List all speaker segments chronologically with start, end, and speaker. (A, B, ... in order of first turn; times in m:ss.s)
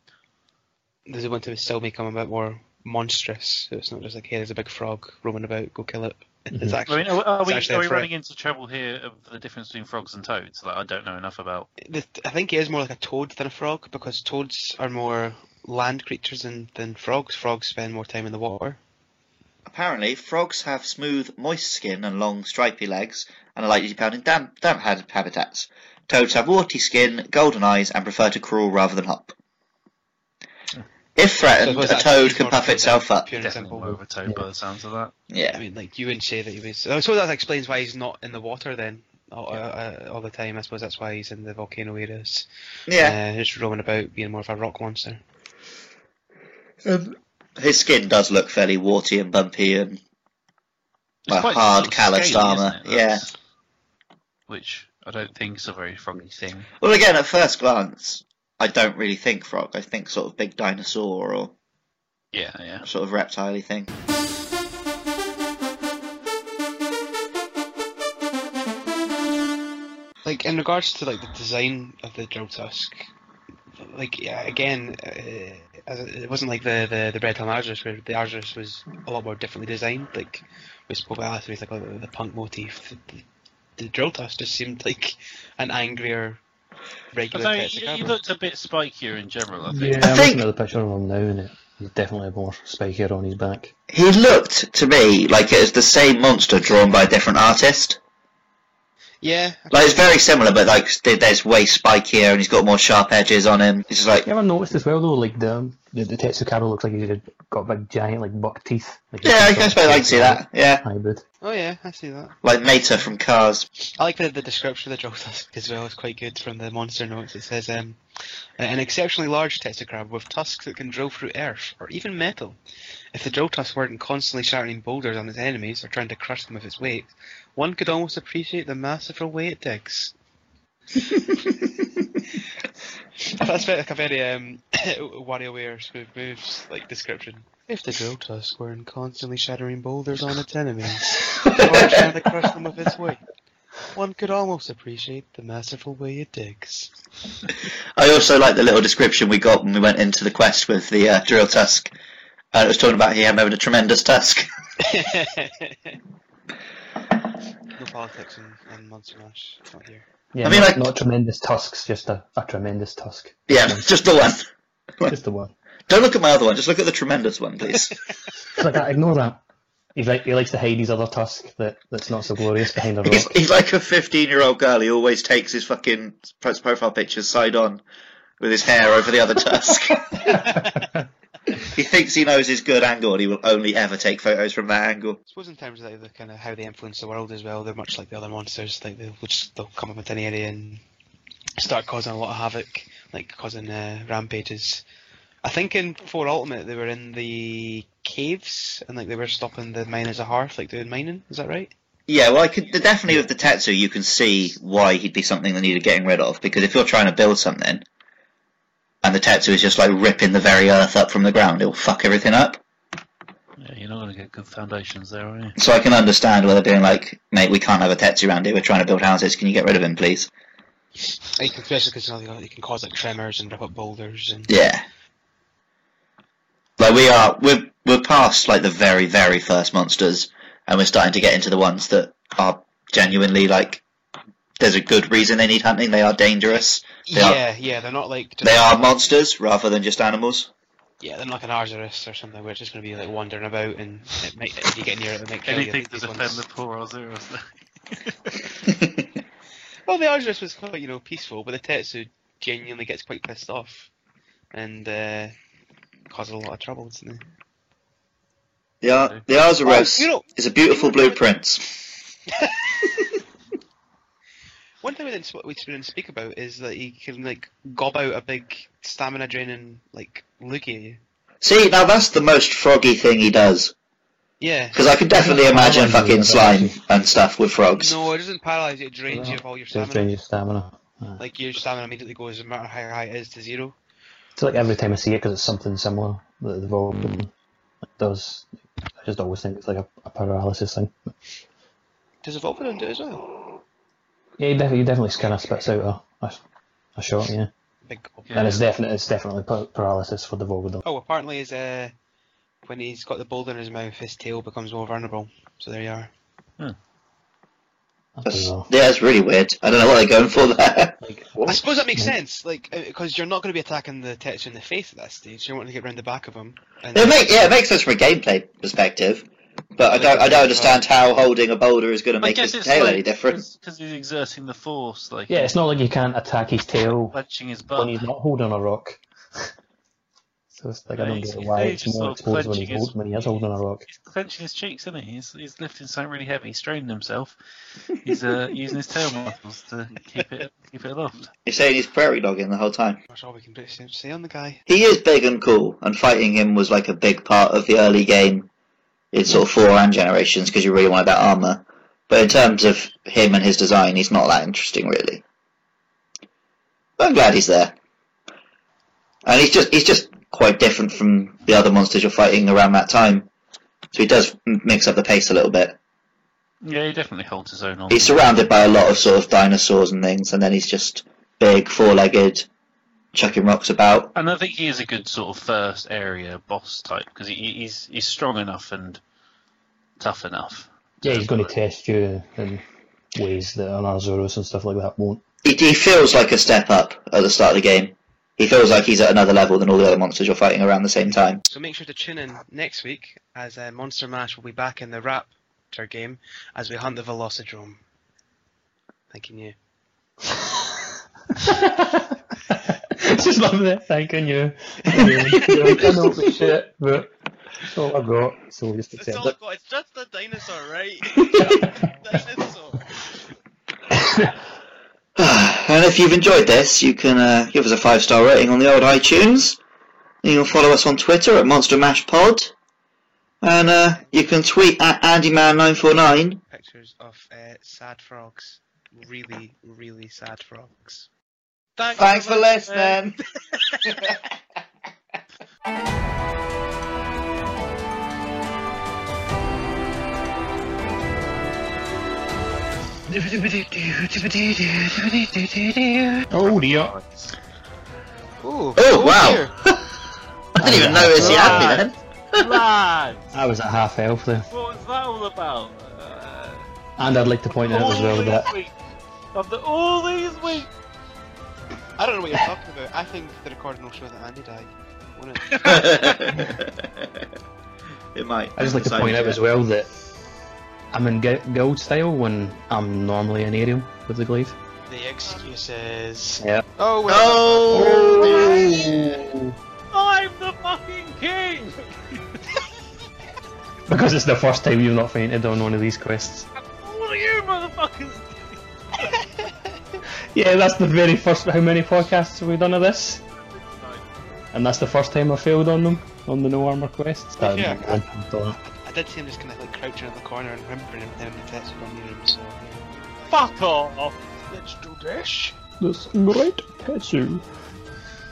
0:01.1-0:08.1 A
0:06.5-0:06.8 B
0:06.9-0:11.7 C
0:11.8-0:18.8 A
0:19.7-0:29.3 D
0:31.2-0:33.3 D
0:31.5-0:34.0 A
0:33.4-0:35.1 C
0:35.3-0:35.6 D
0:35.5-0:45.2 A
0:42.9-0:43.2 D
0:46.8-0:50.0 D
0:51.3-0:53.3 C
0:51.3-0:53.2 D
0:54.5-0:56.7 C
0:56.8-1:01.5 D
1:02.3-1:02.9 C
1:02.8-1:03.9 D
1:10.2-1:13.0 A
1:13.8-1:23.2 A
1:23.8-1:26.4 A
1:27.1-1:28.2 A
1:27.3-1:30.0 C
1:29.7-1:33.7 B
1:30.0-1:30.4 D
1:33.9-1:38.0 D
1:39.2-1:40.3 A
1:39.7-1:44.3 D
1:44.2-1:51.2 B
1:49.2-1:50.8 D
1:51.4-1:52.3 A
1:52.4-1:53.7 D
1:54.0-1:58.0 A
1:58.6-2:02.6 A
2:03.1-2:10.1 A
2:13.2-2:23.2 A
2:21.4-2:21.9 D
2:23.9-2:26.9 A
2:28.0-2:31.9 D
2:32.5-2:34.4 D
2:34.8-2:36.0 A
2:37.8-2:40.0 A
2:40.3-2:43.9 B
2:40.4-2:40.9 D
2:43.5-2:44.4 D
2:45.1-2:45.5 B
2:45.9-2:47.9 D
2:48.6-2:49.4 B
2:50.0-2:53.3 B
2:53.0-2:57.8 D
2:58.4-3:00.4 D
3:00.3-3:00.6 A
3:00.5-3:01.0 B
3:01.6-3:05.2 D
3:05.3-3:10.8 A
3:11.6-3:14.8 A
3:15.4-3:21.7 A
3:22.1-3:27.8 D
3:29.0-3:32.6 D
3:33.6-3:35.5 C
3:35.6-3:40.3 D
3:41.4-3:44.5 A
3:44.5-3:44.8 D
3:46.8-3:53.8 D
3:54.6-3:57.4 D
3:57.0-3:59.1 A
3:58.4-4:00.5 D
4:01.0-4:06.4 A
4:05.5-4:08.4 C
4:09.8-4:13.9 A
4:14.5-4:15.3 A
4:16.1-4:17.2 A
4:18.8-4:21.9 D
4:19.6-4:21.2 A
4:22.4-4:22.9 A
4:24.8-4:31.0 A
4:31.4-4:33.7 D
4:34.4-4:34.8 A
4:34.7-4:38.0 D
4:35.2-4:36.8 B
4:37.8-4:40.1 A
4:39.1-4:41.2 B
4:41.2-4:43.7 A
4:44.4-4:47.3 B
4:47.9-4:51.1 B
4:52.2-4:53.3 A
4:54.4-4:56.4 B
4:57.0-4:57.5 B
4:57.8-4:58.3 A
4:58.3-4:58.6 C
4:58.3-5:00.8 B
5:00.8-5:01.9 A
5:02.6-5:06.1 A
5:08.2-5:08.7 B
5:08.2-5:11.6 D
5:11.0-5:12.1 B
5:11.4-5:17.6 A
5:16.9-5:23.4 D
5:19.9-5:20.8 A
5:22.2-5:25.5 C
5:25.3-5:27.2 B
5:27.1-5:28.0 C
5:27.7-5:29.0 B
5:30.5-5:33.8 B
5:31.0-5:37.4 C
5:37.9-5:41.2 C
5:41.4-5:43.0 D
5:43.1-5:44.6 A
5:44.7-5:48.5 D
5:49.1-5:55.2 D
5:57.0-5:57.7 D
5:59.2-6:03.3 D
6:03.9-6:05.8 D
6:06.6-6:09.1 C
6:07.9-6:12.4 D
6:13.1-6:14.1 D
6:14.1-6:19.0 C
6:20.0-6:21.5 C
6:21.0-6:22.6 B
6:23.2-6:25.2 B
6:25.4-6:31.4 D
6:31.4-6:37.8 A
6:39.1-6:39.5 A
6:41.4-6:42.2 B
6:42.9-6:47.1 B
6:44.9-6:45.8 A
6:47.6-6:49.3 B
6:48.9-6:53.0 A
6:51.3-6:51.7 B
6:55.2-6:59.6 D
7:00.2-7:02.5 D
7:03.4-7:06.4 D
7:06.4-7:11.1 A
7:11.8-7:13.0 A
7:11.9-7:13.2 D
7:23.1-7:27.3 C
7:26.3-7:26.9 B
7:28.4-7:29.5 A
7:28.8-7:29.8 D
7:30.5-7:31.9 D
7:30.6-7:31.8 B
7:31.2-7:33.3 C
7:33.3-7:34.5 B
7:34.5-7:36.6 C
7:37.0-7:38.5 B
7:37.5-7:38.7 C
7:39.3-7:40.7 C
7:42.0-7:46.3 A
7:45.5-7:46.4 C
7:45.6-7:47.1 D
7:48.1-7:49.4 D
7:48.6-7:49.9 B
7:50.9-7:54.5 B
7:54.9-7:58.9 A
7:56.4-7:56.6 B
7:57.1-7:58.7 D
7:57.7-7:59.5 B
7:59.9-8:02.2 C
8:03.9-8:06.5 B
8:06.6-8:08.6 C
8:10.3-8:13.2 B
8:13.5-8:14.0 C
8:14.5-8:18.6 B
8:17.4-8:18.1 A
8:18.6-8:23.6 A
8:23.3-8:24.2 C
8:24.4-8:25.6 A
8:25.8-8:27.4 B